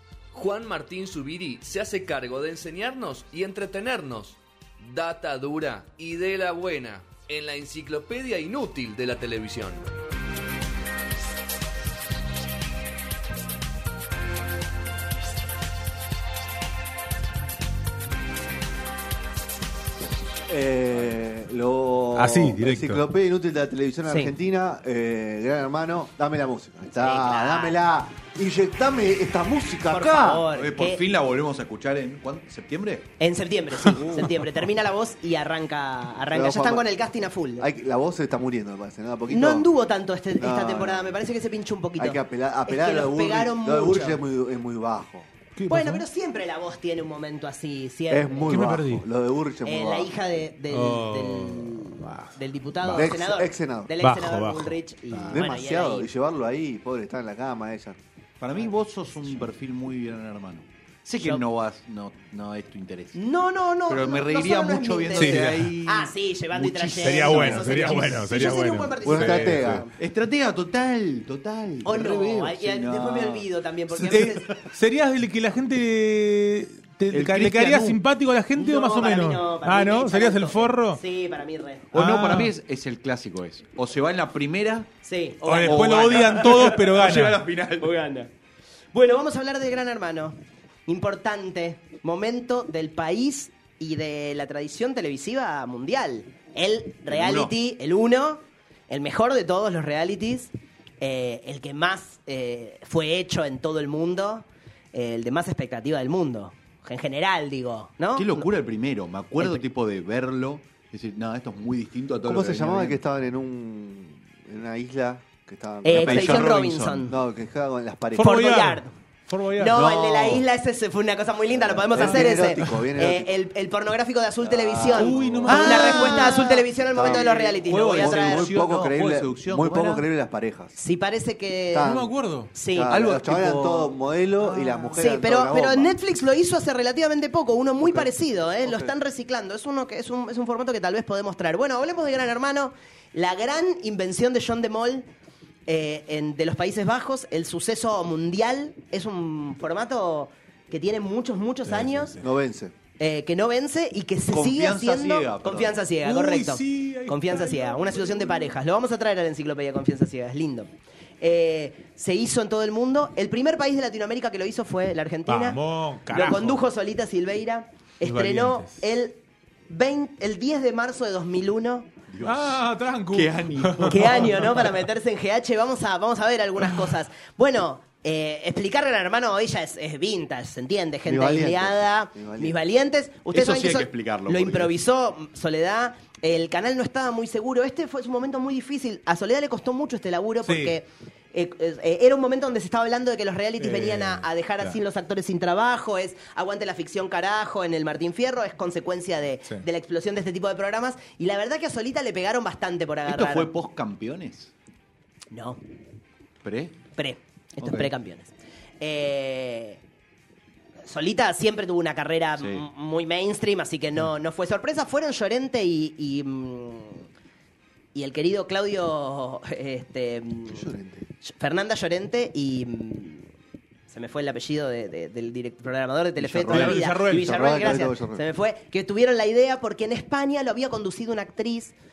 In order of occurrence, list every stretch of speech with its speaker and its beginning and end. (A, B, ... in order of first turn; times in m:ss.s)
0:00.3-0:09.9 A
0:20.4-0:30.4 B
0:22.2-0:23.0 C
0:24.1-0:24.3 D
0:27.0-0:27.8 D
0:29.9-0:31.0 D
0:30.2-0:33.0 E
0:33.2-0:37.7 D
0:34.0-0:34.4 E
0:36.3-0:36.9 B
0:37.6-0:39.7 B
0:39.3-0:44.2 D
0:40.4-0:41.2 B
0:42.0-0:45.3 B
0:45.5-0:46.0 C
0:45.7-0:48.7 D
0:48.1-0:50.1 B
0:48.5-0:49.0 C
0:49.6-0:56.1 D
0:50.7-0:53.1 C
0:52.9-0:53.9 B
0:54.0-0:55.4 C
0:55.3-0:58.0 B
0:58.4-1:03.2 E
1:03.1-1:09.9 D
1:03.9-1:08.4 E
1:05.2-1:05.7 C
1:07.0-1:09.5 C
1:09.0-1:09.8 B
1:09.1-1:14.7 E
1:11.8-1:14.4 D
1:14.1-1:21.0 C
1:17.1-1:18.0 E
1:18.6-1:21.9 D
1:21.9-1:22.5 C
1:21.9-1:24.9 E
1:25.0-1:26.8 D
1:25.5-1:27.4 C
1:25.5-1:27.9 E
1:27.8-1:28.3 D
1:28.9-1:48.5 D
1:37.1-1:37.5 E
1:48.1-1:53.0 E
1:52.2-1:58.4 B
1:55.8-1:57.1 D
1:55.9-1:57.1 E
1:58.2-1:59.8 C
1:58.2-1:58.9 D
1:59.6-2:08.5 D
1:59.7-2:00.4 E
2:01.5-2:03.3 B
2:02.0-2:02.3 E
2:04.4-2:05.6 B
2:04.9-2:10.0 E
2:05.0-2:06.3 C
2:06.9-2:07.3 B
2:07.9-2:10.7 B
2:10.7-2:11.9 D
2:11.7-2:12.1 B
2:11.8-2:12.5 C
2:12.5-2:12.9 D
2:12.7-2:15.9 B
2:12.9-2:13.9 E
2:14.6-2:14.9 C
2:15.0-2:25.0 D
2:18.6-2:18.9 E
2:25.7-2:32.2 D
2:31.7-2:32.2 C
2:32.2-2:32.7 B
2:33.0-2:40.7 D
2:34.3-2:35.8 E
2:36.0-2:38.6 C
2:41.2-2:45.6 D
2:45.3-2:46.6 C
2:46.1-2:49.2 D
2:48.0-2:48.8 C
2:49.7-2:51.9 D
2:52.1-2:54.7 E
2:52.2-2:54.4 C
2:53.9-3:23.5 D
3:01.1-3:02.6 B
3:03.3-3:04.7 E
3:10.4-3:10.8 C
3:13.6-3:14.8 C
3:23.1-3:24.5 E
3:25.3-3:25.6 D
3:26.4-3:26.8 E
3:27.0-3:29.8 D
3:27.6-3:27.9 E
3:30.8-3:37.0 D
3:32.4-3:32.6 E
3:37.9-3:40.7 D
3:40.5-3:41.0 B
3:41.2-3:43.2 D
3:43.9-3:51.7 D
3:46.2-3:48.2 B
3:46.5-3:47.7 C